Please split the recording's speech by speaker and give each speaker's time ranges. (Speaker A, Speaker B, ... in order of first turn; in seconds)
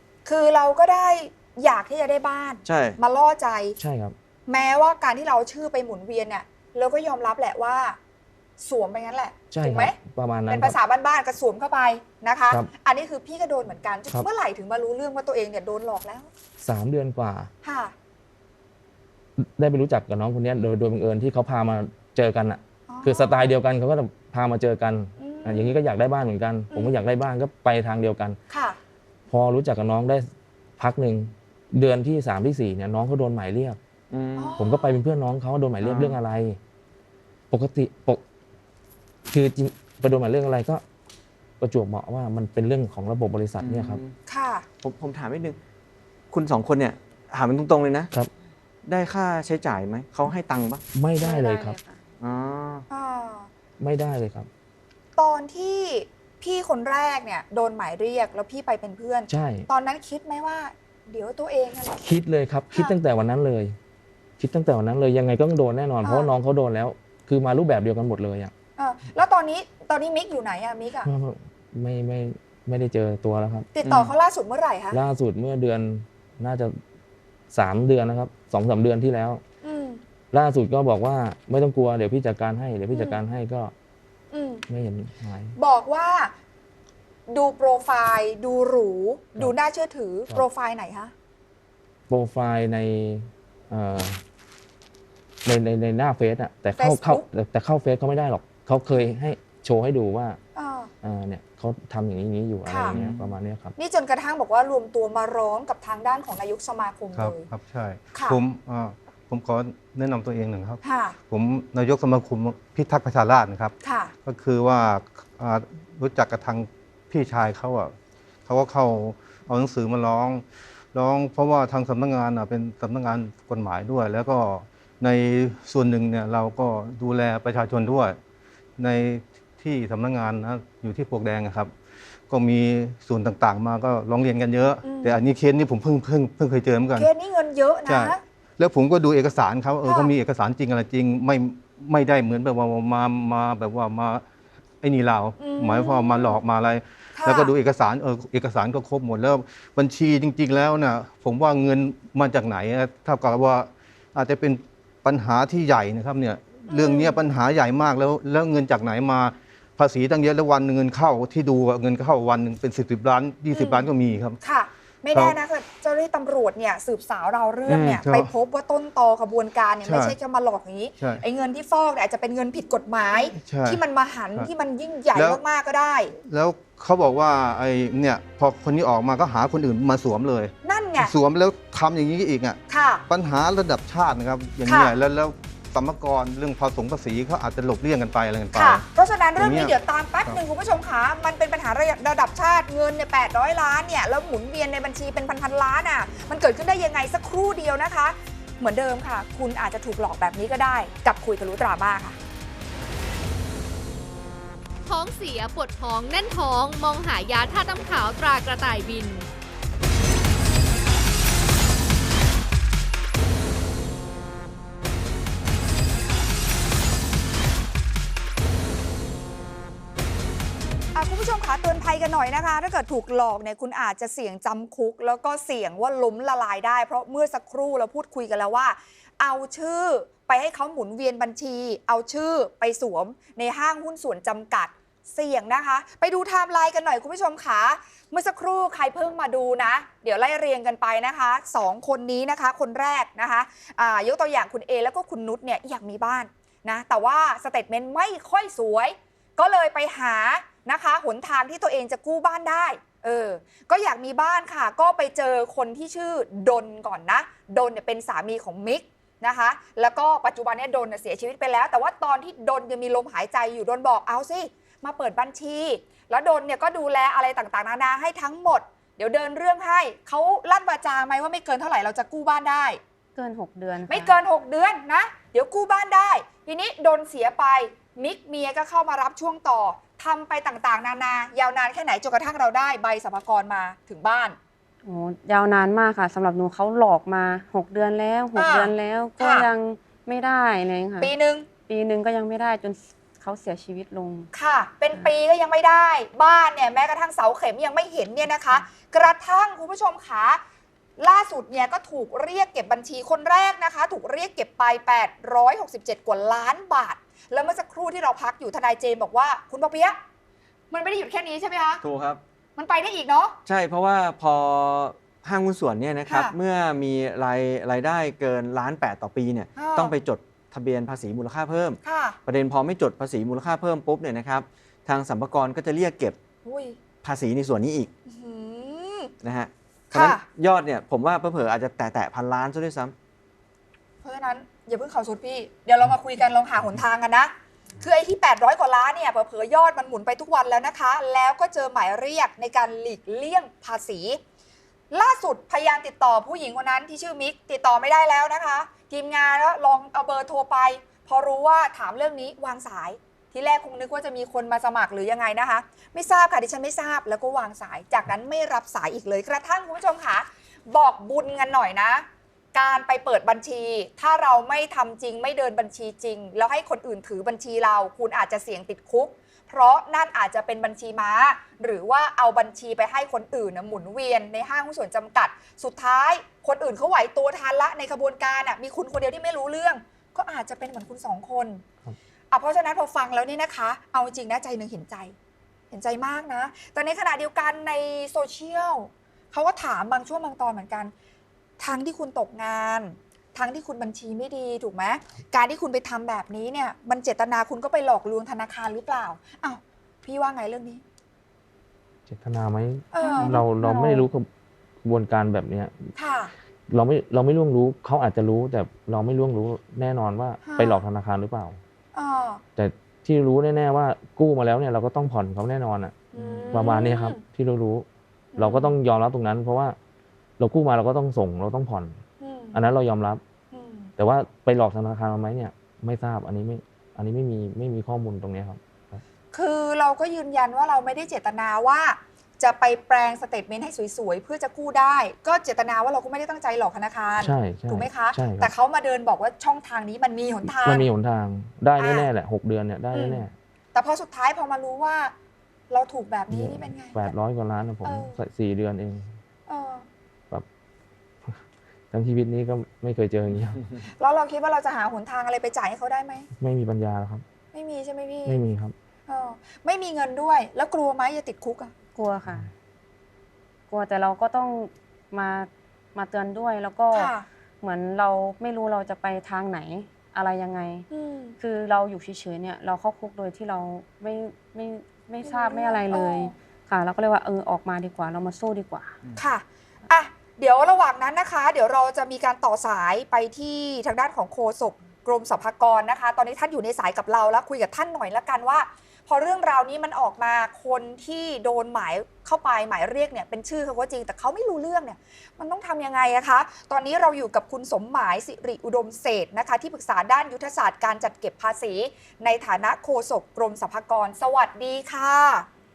Speaker A: 0.2-3.8, 4.5-8.0, 8.6-10.0, 10.5-16.3, 17.6-17.9, 22.9-23.5, 25.2-25.8, 26.7-27.0, 28.5-28.8, 34.4-35.0, 44.3-44.7, 52.9-53.5, 55.2-62.0, 66.0-66.3, 68.8-71.1, 73.7-75.0, 79.6-80.0, 82.9-83.2, 84.3-84.7, 85.6-86.3, 87.3-91.1, 96.8-97.3, 100.5-100.9, 102.7-103.0, 103.8-107.5, 108.1-108.4, 110.8-111.2, 113.8-114.1, 134.8-135.2, 137.0-138.2, 139.8-140.1, 145.4-146.4, 147.2-147.5, 156.7-157.2, 163.5-163.9, 164.4-176.1, 180.6-181.1, 182.7-183.0, 184.7-184.9, 188.6-202.2, 220.9-272.8, 273.9-284.4, 288.4-289.4, 291.0-291.5, 294.3-300.4, 301.0-310.0, 310.7-311.8, 312.6-313.4, 316.1-316.4, 319.6-319.9, 321.8-322.2, 326.4-326.8, 328.1-329.1, 329.9-330.2, 334.0-344.2, 344.9-381.6, 382.3-385.1, 385.7-390.9, 391.6-400.8, 402.9-404.0, 406.0-406.3, 410.4-410.8, 411.9-412.4, 416.1-417.2, 418.4-418.8, 422.2-422.6, 423.5-423.9, 429.3-440.9, 441.8-442.1, 442.9-445.1, 445.7-447.1, 447.8-448.2, 449.5-449.9, 454.0-456.3, 457.5-458.4, 459.1-461.7, 466.9-467.3, 470.9-471.4, 475.2-476.3, 479.2-505.5
Speaker B: 2.6-3.0, 34.1-34.6, 35.8-36.2, 43.6-44.1, 44.8-45.6, 46.3-48.1, 48.9-50.8, 52.2-52.9, 73.8-74.1, 102.9-103.3, 167.7-168.0, 311.8-312.2, 313.5-326.2, 327.0-327.9, 329.2-332.9
Speaker C: 3.8-4.2, 9.5-10.8, 16.6-17.5, 19.4-28.4, 29.3-33.8, 34.6-36.6, 37.5-38.2, 39.3-40.8, 41.6-44.0, 51.0-51.8, 53.8-54.5, 59.3-59.7, 62.0-63.8, 64.4-68.5, 71.0-73.7, 74.9-76.8, 77.5-79.4, 80.3-83.7, 84.7-85.6, 92.1-94.2, 95.5-100.4, 101.0-103.8, 402.1-404.3, 404.8-405.9, 406.7-411.6, 412.6-419.8, 420.4-422.0, 422.5-423.2, 424.0-429.0, 437.2-438.5, 440.4-443.3, 446.3-449.1, 451.9-453.7, 456.4-457.2, 458.3-458.7
Speaker D: 51.2-52.0, 273.1-274.1, 284.9-291.1, 291.7-294.3, 403.0-404.0, 461.9-462.5, 463.7-467.1, 467.6-470.9, 471.4-479.0
Speaker E: 107.1-113.7, 114.2-117.9, 118.5-128.2, 128.8-131.7, 132.3-137.1, 137.9-144.2, 144.8-164.4, 168.0-168.3, 169.8-170.2, 173.3-173.8, 175.1-175.4, 176.2-188.8, 189.4-190.4
Speaker F: 204.9-209.3